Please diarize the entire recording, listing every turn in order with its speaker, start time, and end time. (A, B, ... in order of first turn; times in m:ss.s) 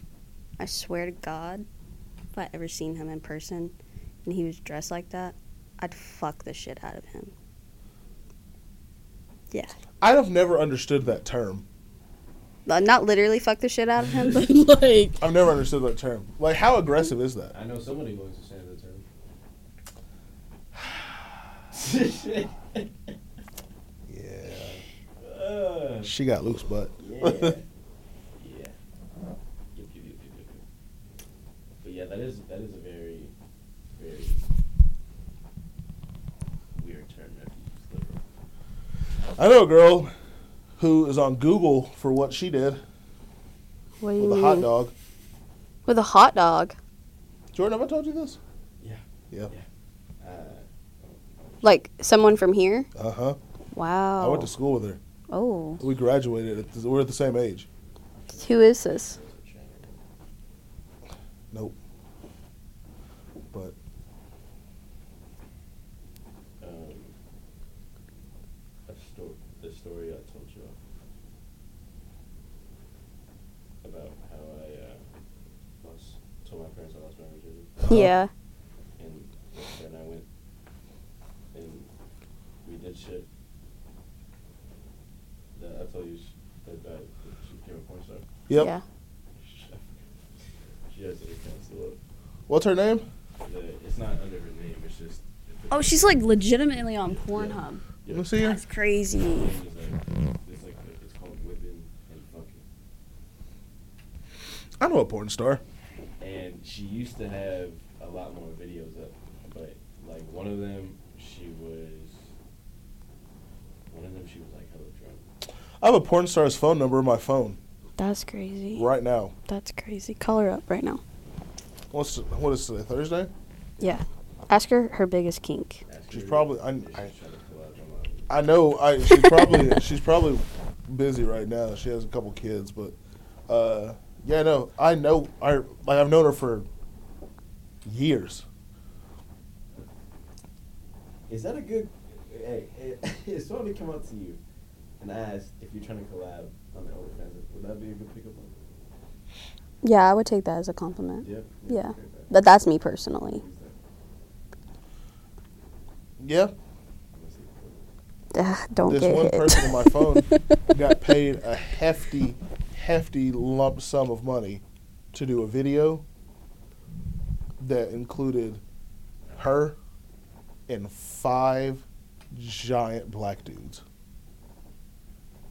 0:00.6-0:01.6 A
0:02.3-0:03.7 A
0:04.2-0:07.3 A
0:10.0-0:11.6 B
0:12.6-0:15.2 A
0:15.2-0:17.6 B
0:17.5-0:19.0 C
0:21.7-0:23.1 C
0:24.1-0:24.8 B
0:24.7-0:26.1 C
0:26.0-0:27.6 B
0:27.0-0:27.6 C
0:28.4-0:28.8 C
0:29.7-0:30.6 C
0:31.8-0:33.3 C
0:33.9-0:34.5 C
0:36.7-0:38.2 C
0:39.4-0:40.1 B
0:40.8-0:42.8 B
0:44.0-0:44.7 A
0:44.2-0:44.9 B
0:45.8-0:46.7 A
0:47.5-0:48.4 B
0:48.8-0:49.6 C
0:50.2-0:51.8 C
0:51.6-0:52.9 A
0:52.9-0:53.4 B
0:53.7-0:54.5 A
0:54.2-0:55.0 B
0:55.3-0:55.8 A
0:55.8-0:57.7 B
0:58.2-1:00.0 C
0:58.4-0:59.2 A
1:06.6-1:07.1 C
1:08.8-1:10.8 C
1:13.8-1:15.1 C
1:15.8-1:17.9 C
1:17.9-1:18.3 A
1:19.0-1:20.3 C
1:21.5-1:21.9 C
1:22.6-1:23.3 C
1:25.6-1:28.3 C
1:28.5-1:28.7 B
1:28.5-1:28.8 A
1:29.3-1:32.0 C
1:32.5-1:33.1 B
1:33.4-1:36.3 C
1:35.7-1:37.8 A
1:37.1-1:38.3 C
1:38.1-1:38.6 B
1:38.4-1:39.5 A
1:39.2-1:42.6 C
1:44.8-1:45.6 B
1:46.2-1:52.3 C
1:53.9-1:55.2 C
1:55.8-1:57.6 B
1:58.0-1:58.8 A
1:58.8-1:59.3 B
1:59.5-2:01.0 A
2:01.9-2:03.3 B
2:03.8-2:05.8 A
2:05.9-2:08.4 C
2:06.1-2:07.1 B
2:08.3-2:13.0 B
2:09.1-2:09.6 A
2:13.5-2:16.7 B
2:17.8-2:18.4 B
2:21.3-2:24.4 C
2:25.0-2:28.6 C
2:29.8-2:33.4 A
2:31.2-2:32.3 C
2:33.2-2:33.8 C
2:36.2-2:36.5 B
2:37.1-2:37.9 C
2:38.3-2:40.6 A
2:38.9-2:44.6 B
2:45.1-2:46.0 B
2:47.6-2:48.6 B
2:49.4-2:49.8 B
2:50.7-2:53.8 B